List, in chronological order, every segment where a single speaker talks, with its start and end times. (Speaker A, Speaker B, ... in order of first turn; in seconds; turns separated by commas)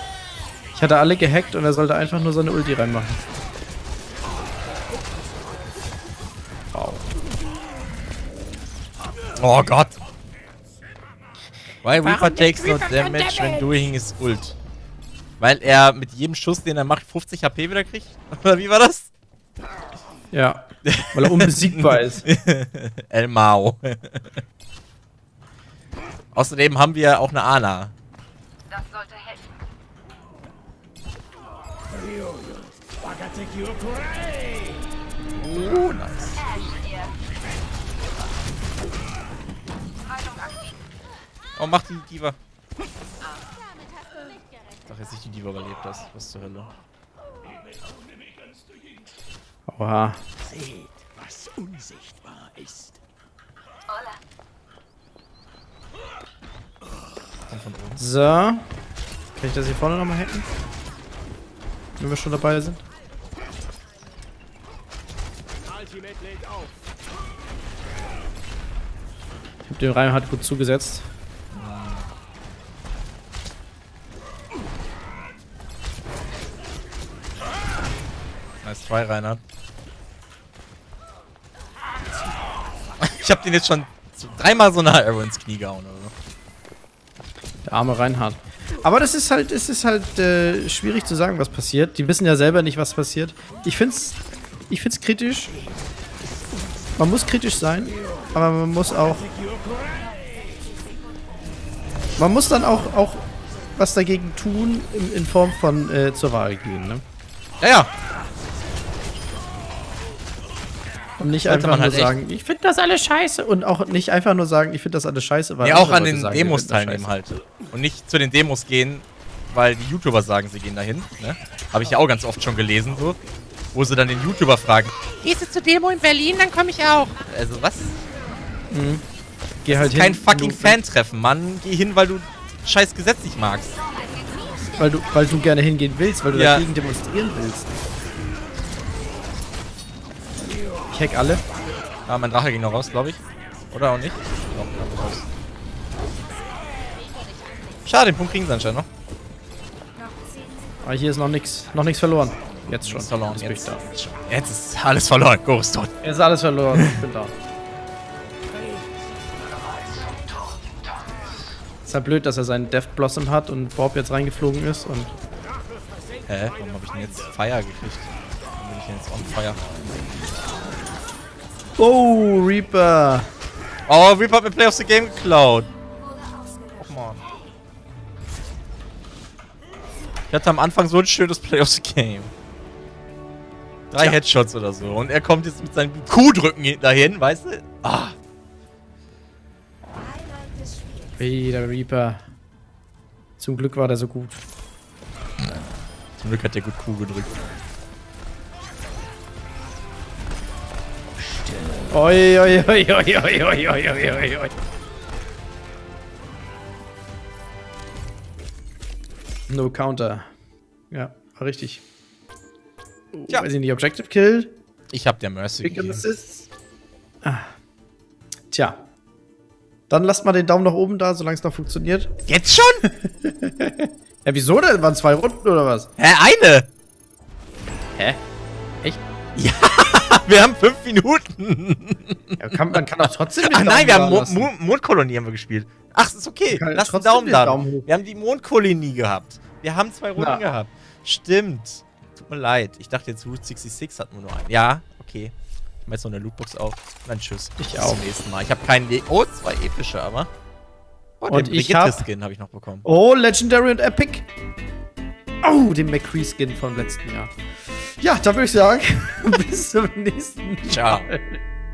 Speaker A: 0.7-3.3, Speaker A: 6.7-7.0, Speaker B: 9.4-10.0, Speaker B: 11.8-14.6, Speaker B: 15.4-19.1, Speaker A: 20.3-22.3, Speaker B: 20.8-24.4, Speaker B: 26.3-27.9, Speaker B: 35.3-36.5, Speaker B: 41.6-42.4, Speaker B: 44.9-46.7, Speaker A: 49.7-50.2, Speaker B: 57.5-58.0, Speaker A: 58.0-58.7, Speaker A: 59.4-60.5, Speaker A: 62.0-62.8, Speaker A: 69.7-71.1, Speaker B: 71.5-72.1, Speaker B: 78.6-79.4, Speaker B: 83.0-86.1, Speaker A: 87.6-95.5, Speaker A: 97.0-99.3, Speaker A: 102.2-107.0, Speaker B: 107.6-107.9, Speaker A: 111.2-117.1, Speaker B: 111.4-112.1, Speaker B: 115.6-123.2, Speaker B: 123.7-128.0, Speaker A: 128.7-129.0, Speaker A: 129.6-130.8, Speaker B: 129.7-133.8, Speaker A: 134.8-137.7, Speaker B: 136.3-136.7, Speaker A: 140.9-141.4, Speaker B: 142.1-143.2, Speaker B: 143.7-145.2, Speaker B: 147.8-148.9, Speaker A: 150.8-153.8, Speaker B: 152.7-155.9, Speaker A: 156.0-157.3, Speaker B: 156.7-157.0, Speaker A: 161.8-165.1, Speaker B: 166.3-169.6, Speaker A: 171.8-173.3, Speaker B: 173.9-175.7, Speaker B: 176.8-177.2, Speaker B: 180.3-182.3, Speaker B: 183.9-188.1, Speaker A: 191.2-192.2, Speaker A: 193.4-194.5, Speaker B: 195.4-195.6, Speaker B: 196.2-197.3, Speaker A: 201.9-204.5, Speaker A: 209.5-210.2, Speaker A: 210.9-211.8, Speaker A: 213.1-214.5, Speaker B: 214.9-216.0, Speaker A: 215.6-216.5, Speaker A: 217.2-217.5, Speaker A: 218.5-218.8, Speaker A: 219.9-222.1, Speaker B: 222.3-222.8, Speaker A: 222.8-225.9, Speaker B: 226.0-226.7, Speaker B: 229.3-245.3, Speaker A: 232.4-234.5, Speaker A: 236.5-237.9, Speaker A: 240.2-240.4, Speaker B: 245.8-250.3, Speaker A: 247.6-248.0, Speaker B: 251.2-252.8, Speaker A: 251.3-252.1, Speaker A: 252.8-254.2, Speaker A: 255.4-261.4, Speaker B: 260.7-261.1